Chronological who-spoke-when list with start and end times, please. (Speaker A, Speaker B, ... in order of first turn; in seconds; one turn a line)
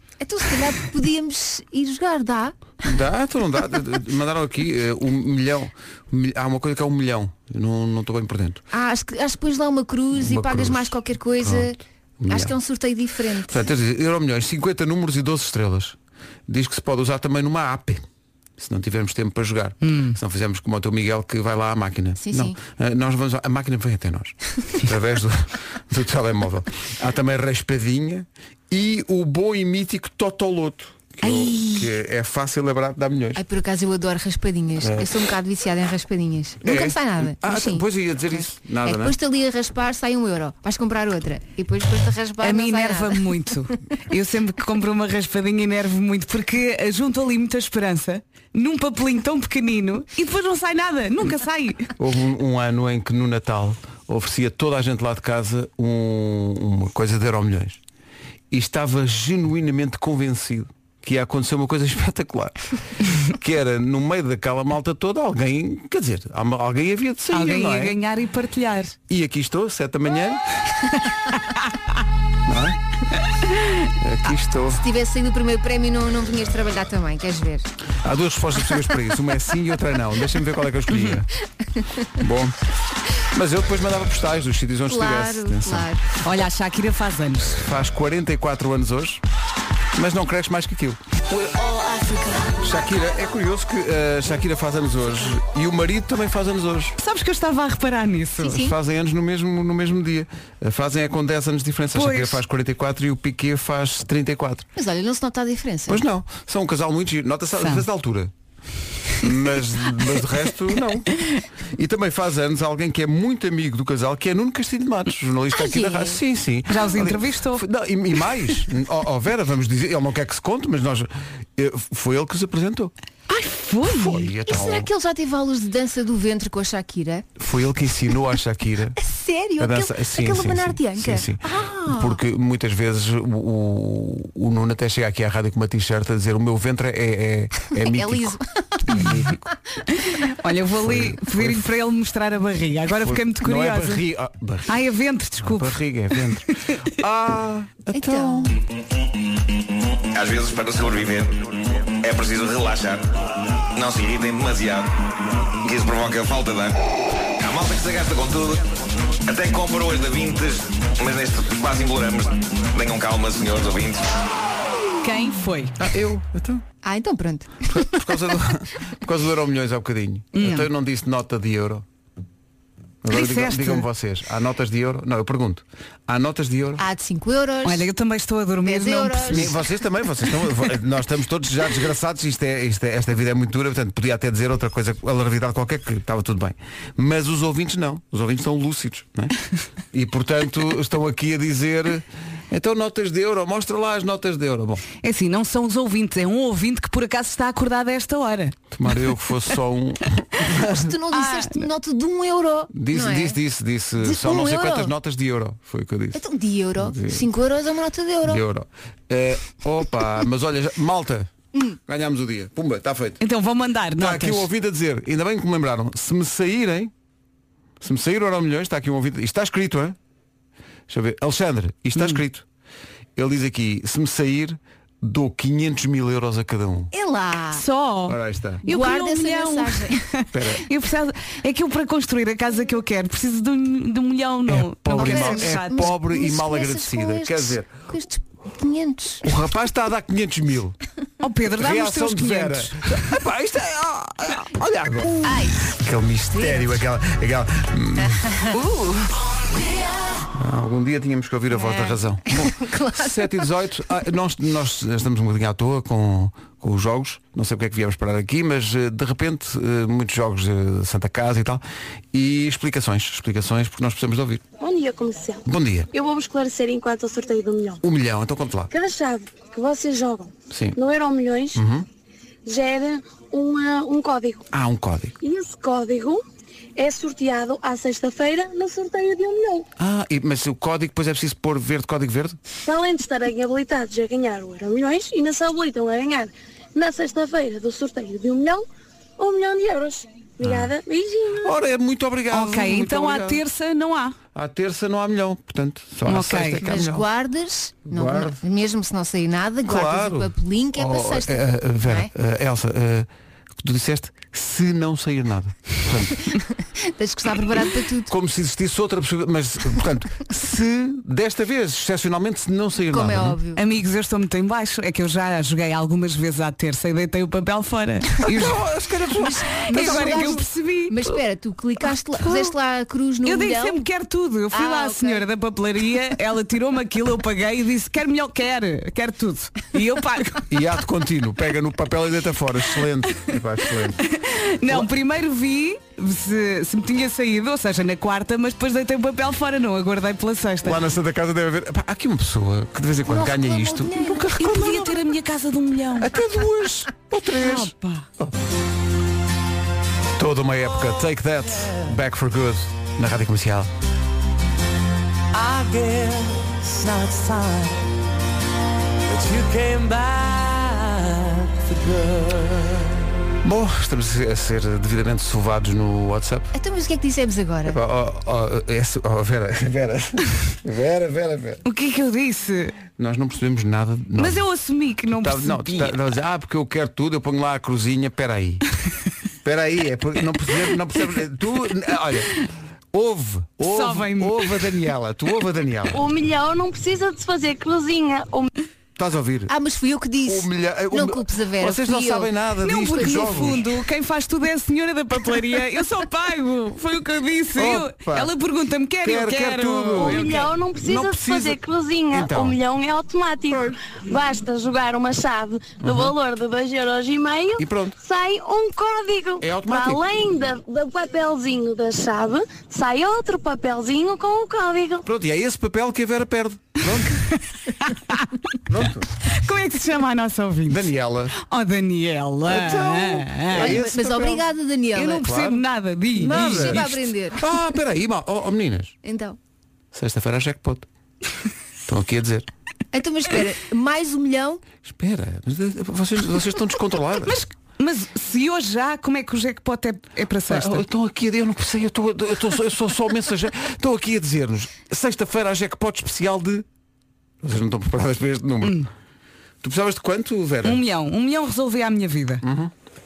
Speaker A: 0.2-2.6
Speaker B: 2.8-8.6
Speaker A: 8.7-11.8
Speaker B: 10.2-12.6
Speaker A: 12.3-13.6
Speaker B: 13.5-16.0
Speaker B: 16.5-18.0
Speaker B: 18.6-33.4
Speaker C: 19.8-20.2
Speaker A: 22.2-22.6
Speaker C: 31.2-31.9
Speaker A: 33.4-43.2
Speaker B: 34.8-35.1
Speaker B: 36.6-39.1
Speaker C: 42.4-51.9
Speaker B: 52.0-57.8
Speaker B: 58.5-62.6
Speaker B: 63.1-68.0
Speaker C: 67.3-69.0
Speaker B: 69.1-70.4
Speaker B: 72.5-72.8
Speaker B: 74.0-74.8
Speaker A: 74.8-77.7
Speaker B: 78.0-81.3
Speaker C: 80.9-81.2
Speaker B: 82.2-82.6
Speaker B: 83.2-85.9
Speaker A: 84.9-86.0
Speaker C: 86.2-87.6
Speaker B: 87.5-89.2
Speaker B: 89.9-91.0
Speaker B: 92.6-97.0
Speaker C: 97.0-98.6
Speaker A: 98.4-98.8
Speaker B: 98.5-104.7
Speaker C: 102.0-102.4
Speaker A: 104.8-106.0
Speaker B: 105.9-108.3
Speaker C: 107.6-107.8
Speaker B: 109.2-111.1
Speaker B: 111.7-122.9
Speaker A: 115.5-116.2
Speaker C: 116.7-117.6
Speaker C: 123.3-124.3
Speaker B: 123.8-124.9
Speaker A: 124.5-127.3
Speaker B: 127.4-129.0
Speaker A: 129.0-132.2
Speaker B: 129.6-139.4
Speaker A: 137.8-139.1
Speaker C: 140.2-144.0
Speaker B: 140.8-141.7
Speaker B: 143.0-144.8
Speaker C: 144.7-146.2
Speaker B: 145.4-148.5
Speaker A: 147.9-148.5
Speaker D: 150.1-156.8
Speaker D: 157.4-164.1
Speaker C: 165.0-165.8
Speaker B: 165.8-166.6
Speaker A: 166.8-168.0
Speaker B: 167.7-171.8
Speaker C: 170.3-170.7
Speaker B: 173.0-176.8
Speaker C: 173.1-173.9
Speaker A: 176.8-177.9
Speaker C: 177.6-179.5
Speaker A: 178.6-179.6
Speaker B: 179.3-189.4
Speaker B: 189.9-194.8
Speaker C: 195.0-198.6
Speaker B: 198.7-200.8
Speaker A: 200.6-203.4
Speaker C: 201.1-201.7
Speaker B: 202.7-206.2
Speaker A: 204.0-204.9
Speaker A: 206.1-208.4
Speaker B: 206.8-207.2
Speaker B: 208.3-211.3
Speaker B: 211.9-213.2
Speaker C: 213.2-214.5
Speaker B: 214.0-216.9
Speaker B: 217.8-220.0
Speaker B: 220.9-222.4
Speaker B: 223.2-226.9
Speaker A: 226.9-227.6
Speaker C: 227.5-235.9
Speaker B: 228.1-228.6
Speaker A: 228.7-230.0
Speaker B: 230.3-230.7
Speaker B: 234.5-237.7
Speaker A: 234.9-239.2
Speaker B: 239.2-240.8
Speaker C: 241.2-242.8
Speaker B: 241.5-248.4
Speaker A: 245.3-245.6
Speaker A: 246.4-246.7
Speaker B: 250.3-264.4
Speaker A: 251.5-253.4
Speaker E: 264.6-267.8
Speaker B: 265.4-265.9
Speaker B: 267.8-268.7
Speaker E: 268.7-271.6
Speaker B: 270.5-270.8
Speaker B: 271.5-271.9
Speaker E: 272.4-274.4
Speaker B: 274.5-275.2
Speaker E: 275.2-276.2
Speaker E: 276.8-279.7
Speaker B: 279.8-282.4
Speaker E: 282.6-288.6
Speaker E: 289.2-291.6
Speaker B: 290.4-290.7
Speaker B: 291.4-293.4
Speaker C: 292.3-294.2
Speaker B: 294.4-297.1
Speaker C: 296.1-296.7
Speaker A: 296.7-302.1
Speaker B: 297.9-298.4
Speaker B: 299.6-303.1
Speaker B: 303.6-306.2
Speaker A: 306.3-308.1
Speaker B: 308.1-313.4
Speaker A: 312.9-313.6
Speaker C: 313.6-318.6
Speaker B: 318.3-320.4
Speaker A: 319.4-323.9
Speaker C: 319.7-321.2
Speaker C: 322.2-322.5
Speaker C: 323.2-330.5
Speaker A: 324.5-325.3
Speaker B: 330.5-334.0
Speaker C: 334.1-340.8
Speaker B: 340.6-345.0
Speaker A: 343.1-344.3
Speaker C: 344.4-346.2
Speaker B: 346.0-348.3
Speaker C: 347.4-348.1
Speaker B: 350.2-353.7
Speaker F: 355.8-357.6
Speaker F: 359.1-359.7
Speaker F: 361.7-362.0
Speaker B: 363.4-366.5
Speaker A: 366.5-367.8
Speaker B: 367.7-371.6
Speaker C: 371.6-372.8
Speaker B: 373.0-374.4
Speaker C: 374.2-375.9
Speaker B: 375.2-378.6
Speaker B: 379.4-382.4
Speaker B: 382.9-386.0
Speaker C: 383.6-384.6
Speaker E: 385.9-388.5
Speaker B: 389.0-389.5
Speaker A: 389.5-392.3
Speaker B: 390.3-393.6
Speaker C: 392.6-400.3
Speaker A: 393.0-393.5
Speaker B: 397.6-398.3
Speaker B: 399.0-401.6
Speaker E: 400.0-415.0
Speaker B: 402.1-402.6
Speaker B: 403.5-403.8
Speaker B: 405.8-406.1
Speaker B: 407.6-408.0
Speaker B: 409.4-410.0
Speaker B: 415.0-417.3
Speaker C: 417.9-418.3
Speaker B: 418.7-419.1
Speaker C: 419.3-423.8
Speaker B: 420.7-421.4
Speaker B: 422.5-424.4
Speaker A: 423.5-425.3
Speaker C: 424.9-426.9
Speaker B: 425.2-425.6
Speaker A: 426.2-427.4
Speaker B: 426.2-428.9
Speaker A: 429.0-429.4
Speaker B: 429.9-430.9
Speaker B: 431.9-432.5
Speaker A: 432.9-434.6
Speaker B: 434.9-437.4
Speaker C: 437.2-440.9
Speaker B: 440.5-446.6
Speaker B: 447.4-448.9
Speaker C: 448.6-448.9
Speaker B: 449.6-450.8
Speaker C: 450.6-452.4
Speaker B: 452.4-452.7